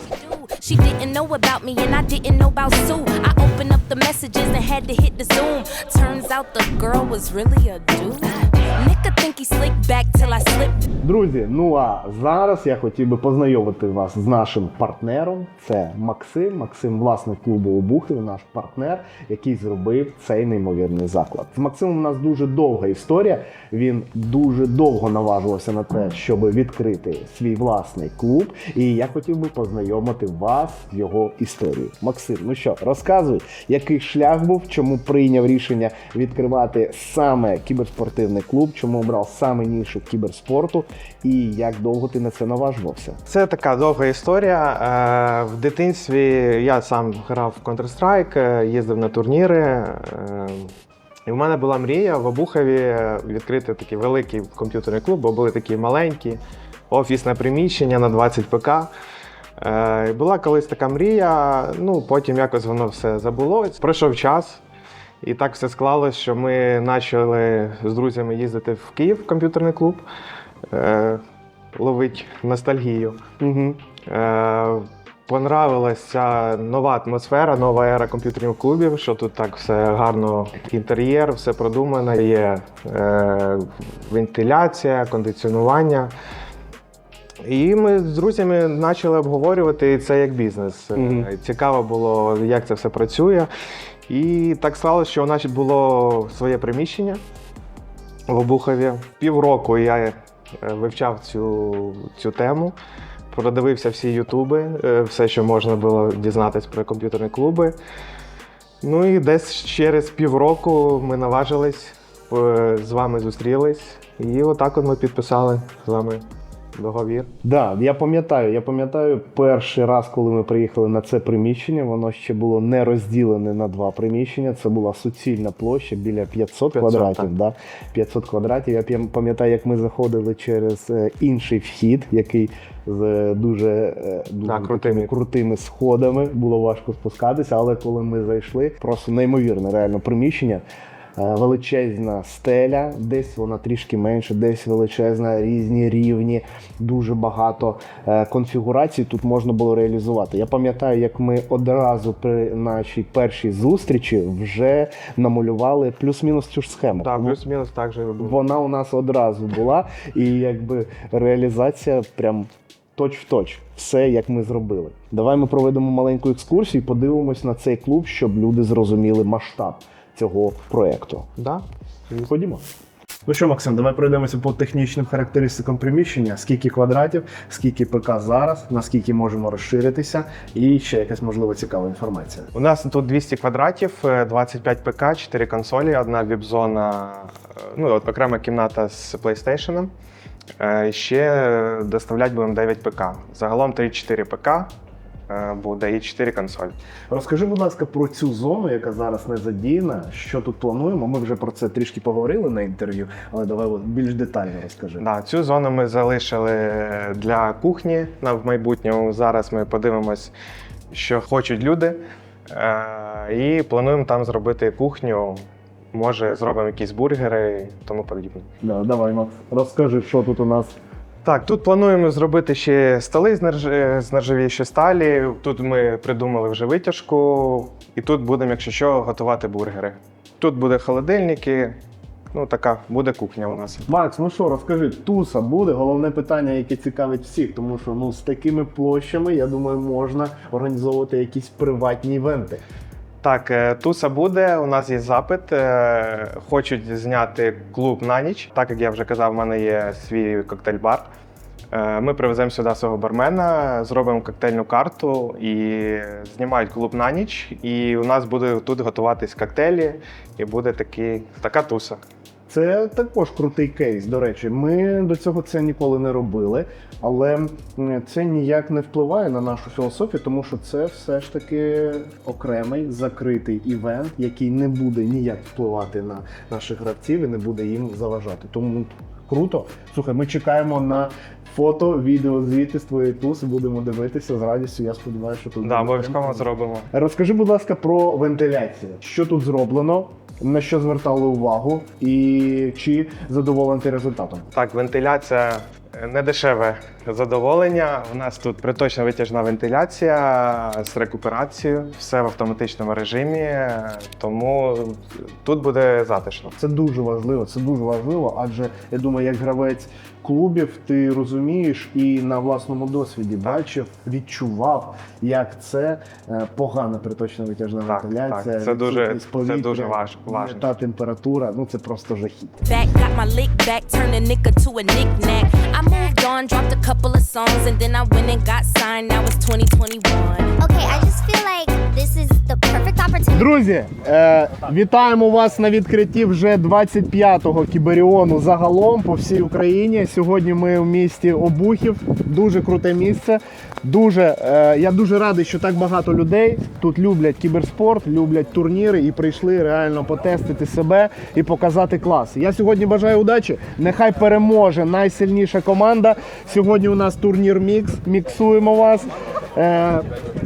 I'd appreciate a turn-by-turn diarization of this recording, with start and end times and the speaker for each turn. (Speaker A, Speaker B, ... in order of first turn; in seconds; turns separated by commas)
Speaker A: 0.2-10.8, Speaker B: 11.0-43.2, Speaker C: 43.3-50.7, Speaker C: 51.3-58.9, Speaker C: 59.6-64.6, Speaker C: 65.2-70.0, Speaker C: 70.7-71.2, Speaker C: 71.7-73.2, Speaker B: 73.4-73.8, Speaker C: 74.0-86.1, Speaker C: 87.4-93.5, Speaker B: 90.9-91.3, Speaker C: 94.1-97.2, Speaker C: 98.3-102.8, Speaker C: 103.3-107.8, Speaker C: 108.8-116.2, Speaker C: 116.7-117.3, Speaker B: 117.4-140.6, Speaker C: 126.7-127.3, Speaker C: 134.4-135.1, Speaker B: 141.2-157.4, Speaker C: 157.0-158.4, Speaker B: 158.2-171.3, Speaker C: 171.4-171.6, Speaker B: 172.1-172.6, Speaker B: 173.3-182.5, Speaker C: 182.5-189.9, Speaker C: 190.6-194.7, Speaker C: 195.3-196.7, Speaker B: 197.1-205.0, Speaker C: 205.0-210.3, Speaker C: 210.9-218.5, Speaker B: 218.6-220.7, Speaker C: 221.2-231.8, Speaker C: 232.3-233.8, Speaker B: 233.8-242.6, Speaker C: 243.2-251.1, Speaker C: 251.7-262.0, Speaker B: 262.5-294.5, Speaker C: 285.6-286.9, Speaker C: 294.5-306.6, Speaker B: 306.6-322.6, Speaker C: 317.8-320.7, Speaker A: 322.6-330.6, Speaker D: 330.6-333.4, Speaker B: 333.3-360.0